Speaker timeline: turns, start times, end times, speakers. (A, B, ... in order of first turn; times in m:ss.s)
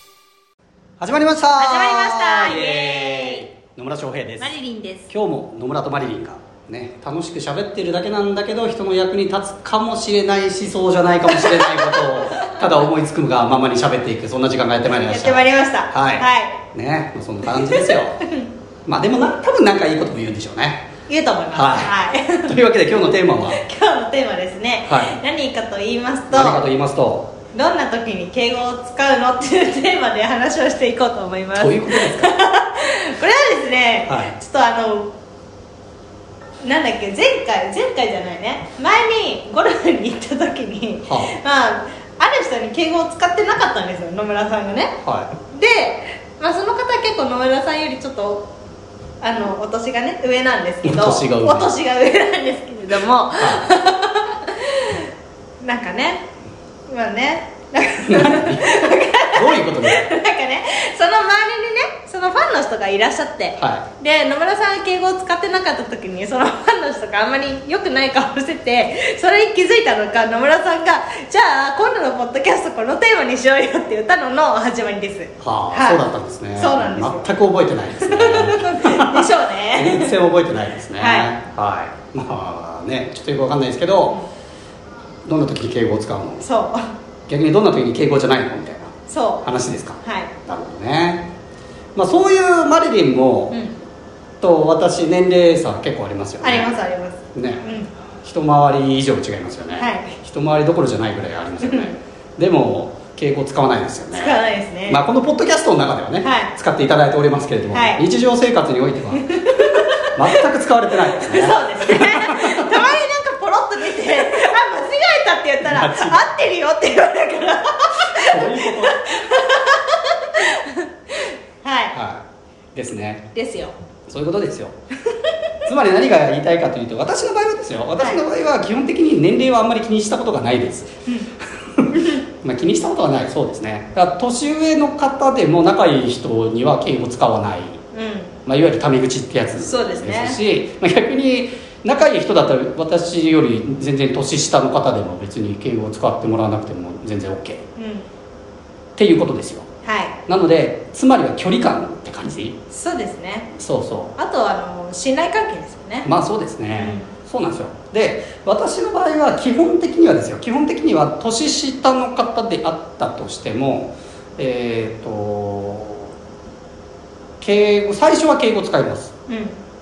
0:01.0-0:04.6 A
0:01.6-0:03.5 B
0:04.4-0:05.1 B
0:05.1-0:18.2 A
0:11.3-0:12.7 B
0:14.9-0:16.6 B
0:17.4-0:18.5 B
0:18.9-0:20.9 A
0:21.1-0:22.6 B
0:21.5-0:23.6 A
0:23.5-0:26.6 B
0:24.9-0:25.2 A
0:26.3-0:27.3 A
0:27.5-0:35.1 B
0:31.6-0:32.3 A
0:34.1-0:34.4 A
0:36.6-0:45.0 B
0:41.0-0:41.3 A
0:45.0-0:45.3 A
0:45.5-0:48.5 B
0:49.2-0:55.0 B
0:50.8-0:51.7 A
0:53.4-0:53.7 A
0:55.6-0:56.3 B
0:56.9-1:16.0 B
0:58.0-1:00.1 A
1:03.6-1:03.9 A
1:15.4-1:24.2 A
1:16.6-1:17.3 B
1:18.0-1:20.1 B
1:21.0-1:21.3 B
1:25.2-1:26.5 A
1:26.4-1:26.9 B
1:27.3-1:31.3 A
1:29.1-1:29.5 B
1:30.0-1:30.3 B
1:32.0-1:33.6 A
1:34.4-1:36.7 A
1:36.4-1:37.9 B
1:37.3-1:37.6 A
1:38.2-1:49.6 A
1:39.8-1:40.1 B
1:41.6-1:41.9 B
1:44.1-1:45.0 B
1:46.2-1:46.5 B
1:47.7-1:48.0 B
1:49.2-1:50.4 B
1:50.2-1:52.8 A
1:51.0-2:02.0 B
1:55.6-1:56.2 A
1:58.2-1:59.0 A
2:01.9-2:03.2 A
2:03.3-2:03.8 B
2:04.1-2:04.8 A
2:05.7-2:11.0 A
2:11.7-2:17.8 A
2:11.9-2:12.2 B
2:17.9-2:18.3 B
2:18.5-2:27.6 A
2:19.6-2:20.4 B
2:27.8-2:28.1 B
2:29.0-2:29.7 A
2:29.8-2:30.2 B
2:30.3-2:32.6 A
2:32.7-2:33.5 B
2:33.6-2:34.2 A
2:34.2-2:36.1 B
2:36.0-2:46.1 A
2:36.7-2:37.1 B
2:47.4-2:49.1 A
2:49.3-2:49.6 B